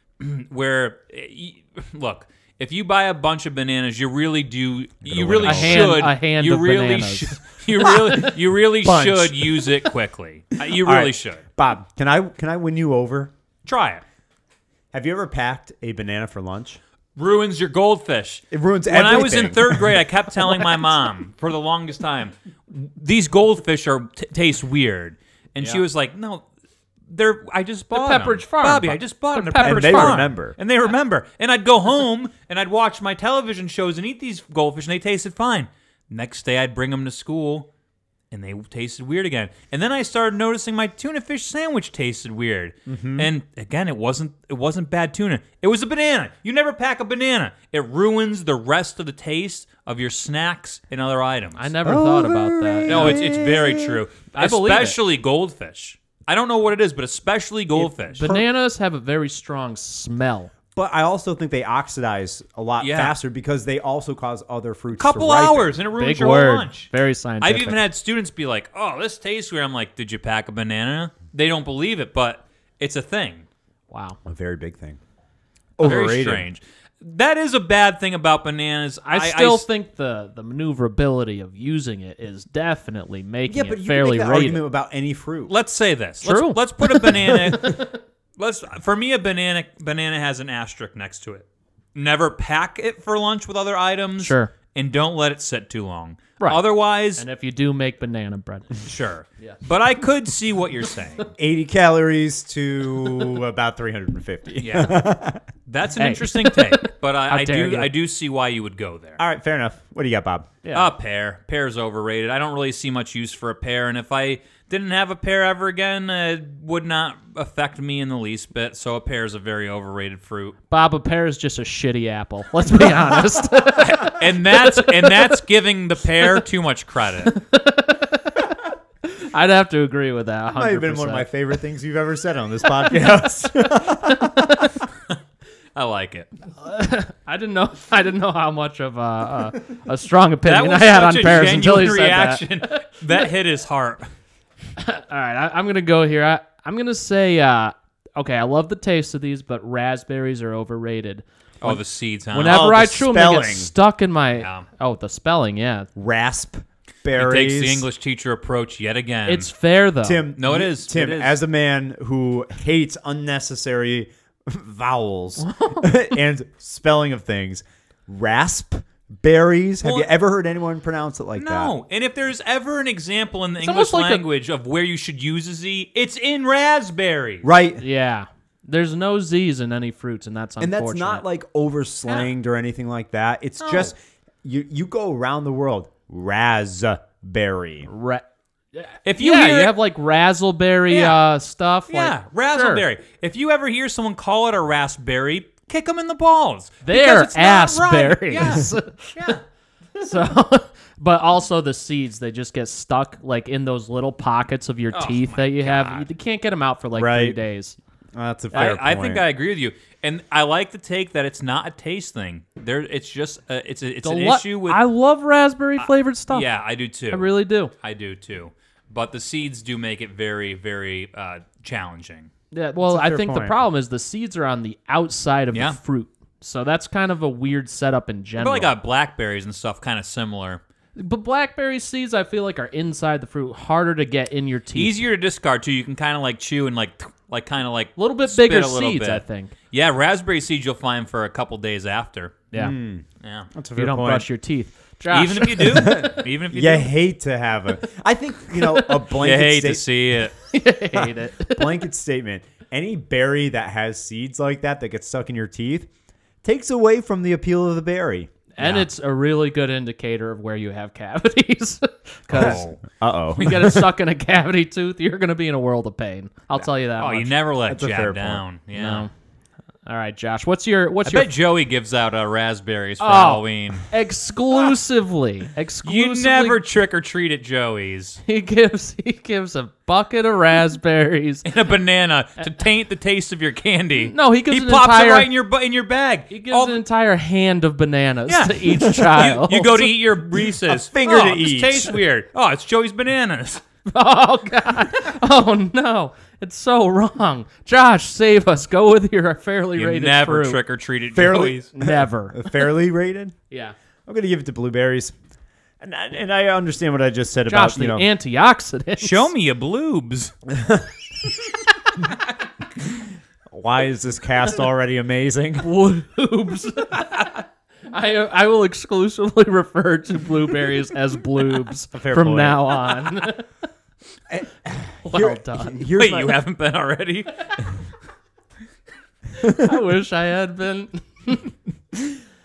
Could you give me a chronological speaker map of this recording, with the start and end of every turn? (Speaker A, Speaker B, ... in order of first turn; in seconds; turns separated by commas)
Speaker A: 0.2-11.4, Speaker B: 5.0-6.1, Speaker C: 5.4-8.0, Speaker B: 8.0-8.2, Speaker B: 8.8-9.7, Speaker B: 10.7-13.3, Speaker A: 13.7-14.0, Speaker B: 14.9-16.8, Speaker A: 17.2-26.4, Speaker B: 18.5-20.0, Speaker A: 27.1-37.7, Speaker C: 27.9-30.2, Speaker B: 29.6-30.6, Speaker A: 38.3-51.7, Speaker B: 42.9-43.3, Speaker C: 51.6-53.3, Speaker B: 51.9-54.0, Speaker A: 52.9-58.4, Speaker C: 54.3-55.0, Speaker C: 58.1-60.5, Speaker B: 60.8-65.7, Speaker A: 62.8-63.1, Speaker A: 65.0-66.9, Speaker C: 66.0-67.8, Speaker A: 67.4-73.5, Speaker C: 73.9-74.2, Speaker B: 74.2-75.0, Speaker B: 75.8-76.5, Speaker A: 75.8-79.7, Speaker C: 79.1-84.6, Speaker B: 83.5-85.5, Speaker A: 85.5-97.2, Speaker C: 86.2-87.9, Speaker C: 94.2-94.5, Speaker C: 97.2-98.8, Speaker A: 98.8-101.3, Speaker B: 101.4-105.4, Speaker A: 104.6-105.1, Speaker A: 105.7-109.2, Speaker C: 106.0-107.9, Speaker B: 109.2-110.5, Speaker C: 110.6-110.9, Speaker A: 110.7-120.6, Speaker C: 120.7-125.3, Speaker A: 123.8-127.3, Speaker C: 127.2-128.4, Speaker C: 129.1-131.3, Speaker B: 130.5-134.8, Speaker C: 133.9-134.7, Speaker A: 135.8-136.3, Speaker C: 136.6-142.8, Speaker A: 140.4-144.1, Speaker C: 144.8-151.8, Speaker A: 151.6-152.7, Speaker C: 152.3-155.9, Speaker B: 152.4-153.7, Speaker A: 154.4-154.7, Speaker B: 156.0-157.9, Speaker A: 157.2-159.5, Speaker C: 159.3-160.2, Speaker B: 160.0-171.7, Speaker A: 160.4-161.4, Speaker C: 165.4-165.9, Speaker A: 169.8-170.1, Speaker A: 171.4-177.5, Speaker C: 173.6-174.2, Speaker B: 177.4-177.8, Speaker C: 177.8-181.2, Speaker B: 180.6-187.9, Speaker A: 183.6-183.9, Speaker C: 187.9-192.8, Speaker A: 189.1-189.8, Speaker A: 190.9-191.2, Speaker A: 191.9-199.4, Speaker C: 196.8-199.4, Speaker C: 200.0-207.8, Speaker A: 204.9-206.1, Speaker B: 206.9-207.4, Speaker B: 208.2-209.2, Speaker A: 208.5-214.8, Speaker C: 214.0-216.5, Speaker A: 215.8-222.3, Speaker C: 217.1-217.7, Speaker C: 222.5-228.7, Speaker B: 222.8-223.6, Speaker A: 225.5-225.8, Speaker A: 228.4-230.6, Speaker C: 231.0-235.0, Speaker A: 234.8-242.5, Speaker C: 238.0-239.5, Speaker B: 242.6-244.3, Speaker A: 243.2-243.5, Speaker C: 243.8-246.1, Speaker A: 245.1-246.9, Speaker B: 245.6-249.8, Speaker A: 249.1-250.4, Speaker C: 250.5-251.8, Speaker B: 250.9-255.9, Speaker B: 256.4-258.9, Speaker C: 258.6-262.7, Speaker A: 262.3-262.8, Speaker B: 262.3-263.8, Speaker C: 263.4-267.3, Speaker A: 267.0-269.1, Speaker B: 267.7-268.4, Speaker C: 268.7-269.1, Speaker C: 269.9-271.3, Speaker A: 271.1-273.9, Speaker C: 273.0-276.6, Speaker A: 275.8-278.2, Speaker C: 278.2-281.5, Speaker A: 281.4-286.8, Speaker C: 284.1-285.3, Speaker C: 286.3-289.9, Speaker A: 288.3-293.6, Speaker B: 290.6-292.0, Speaker C: 293.9-300.6, Speaker A: 299.8-301.7, Speaker B: 301.1-303.4, Speaker C: 301.7-302.6, Speaker C: 303.5-303.8, Speaker B: 304.1-305.1, Speaker B: 305.8-308.1, Speaker C: 307.5-309.3, Speaker A: 309.0-310.3, Speaker B: 310.5-310.9, Speaker B: 313.5-315.7, Speaker C: 315.6-317.4, Speaker C: 317.9-323.5, Speaker B: 321.9-322.8, Speaker B: 324.3-326.4, Speaker C: 325.0-325.9, Speaker A: 325.9-327.7, Speaker C: 329.4-331.5